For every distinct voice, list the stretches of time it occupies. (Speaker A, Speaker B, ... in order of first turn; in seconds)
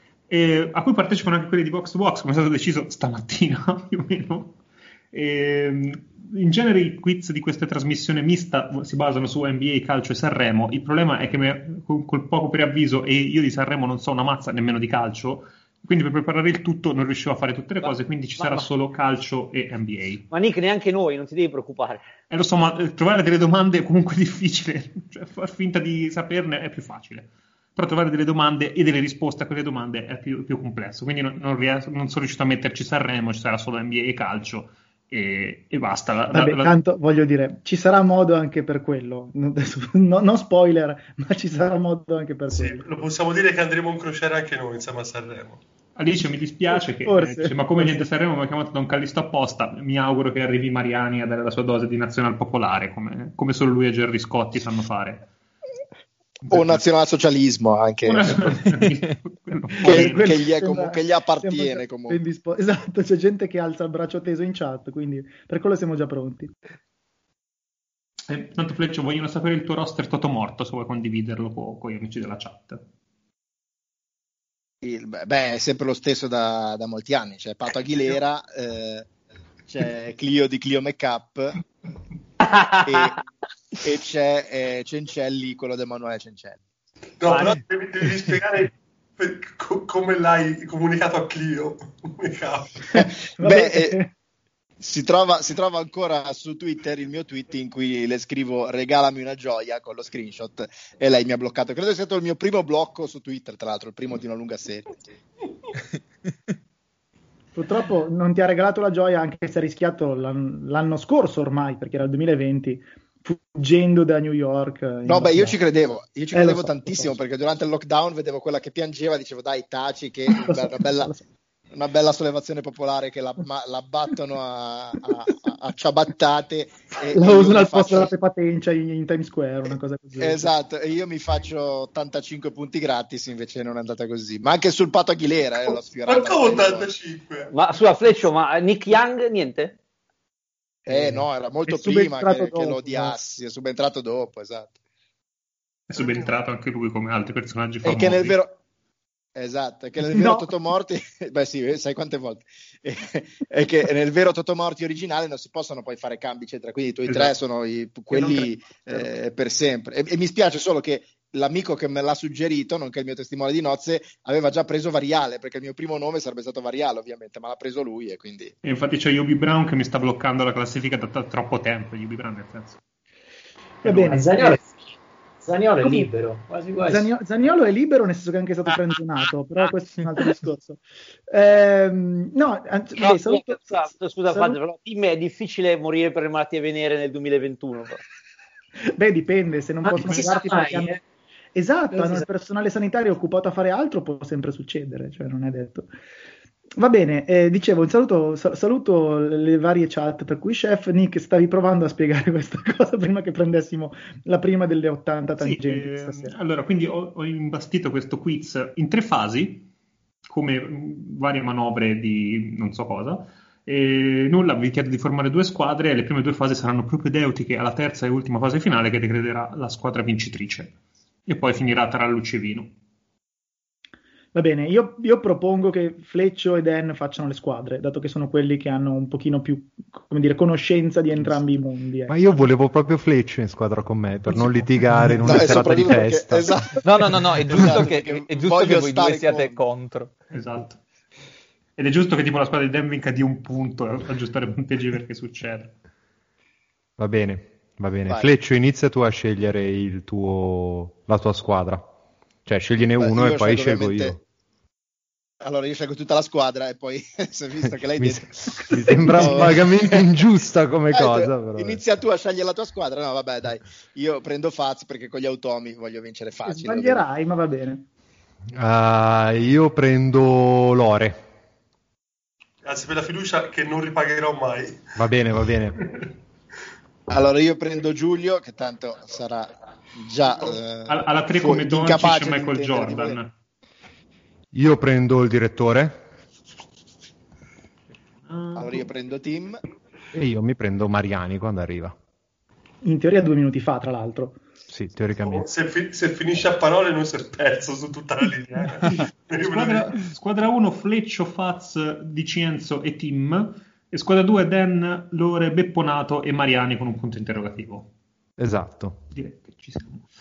Speaker A: 0.3-4.5, 5.1-20.2, 22.3-36.7, 46.0-55.3, 56.5-56.8, 58.0-60.3, 68.3-72.8, 145.9-148.4, 157.1-157.3, 168.6-172.8, 173.8-174.2, 205.4-209.7, 210.3-220.7, 221.3-222.7, 240.3-240.8, 241.8-245.7, 280.9-283.3, 288.3-288.9, 298.9-307.9, 309.1-310.1
Speaker B: 17.8-18.7, 20.3-22.0, 82.4-83.1, 137.5-139.8, 183.0-188.0
Speaker C: 36.3-42.8, 47.0-48.0, 59.8-66.5, 93.4-94.1, 107.5-115.6, 116.3-117.2, 120.3-121.2, 127.1-130.5, 140.9-143.1, 150.0-150.5, 173.8-174.6, 176.8-184.6, 188.8-190.9, 191.5-195.9, 196.8-206.3, 224.3-232.2, 258.7-259.6, 266.4-267.9, 292.8-294.4
Speaker D: 42.5-45.6, 87.2-92.9, 135.7-137.5, 145.9-146.3, 272.6-274.8, 295.2-299.9
Speaker E: 56.5-58.5, 59.8-62.2, 74.8-79.1, 79.7-81.6, 82.8-83.2, 83.8-86.6, 92.9-94.0, 94.8-105.0, 115.0-121.1, 121.7-128.1, 130.2-136.9, 140.9-144.7, 147.8-148.5, 149.3-168.5, 235.2-236.8, 237.4-239.6, 252.9-254.2, 255.4-259.7, 260.9-267.0, 277.1-283.2, 288.5-289.6
Speaker F: 174.1-174.6, 175.4-177.1, 189.8-191.0, 191.9-192.2
Speaker G: 232.1-236.6, 247.0-251.8, 252.4-254.2, 258.0-261.8, 268.5-271.2, 274.9-275.8, 284.5-285.9, 290.1-291.9, 294.7-295.5, 308.4-309.0
Speaker H: 236.8-240.2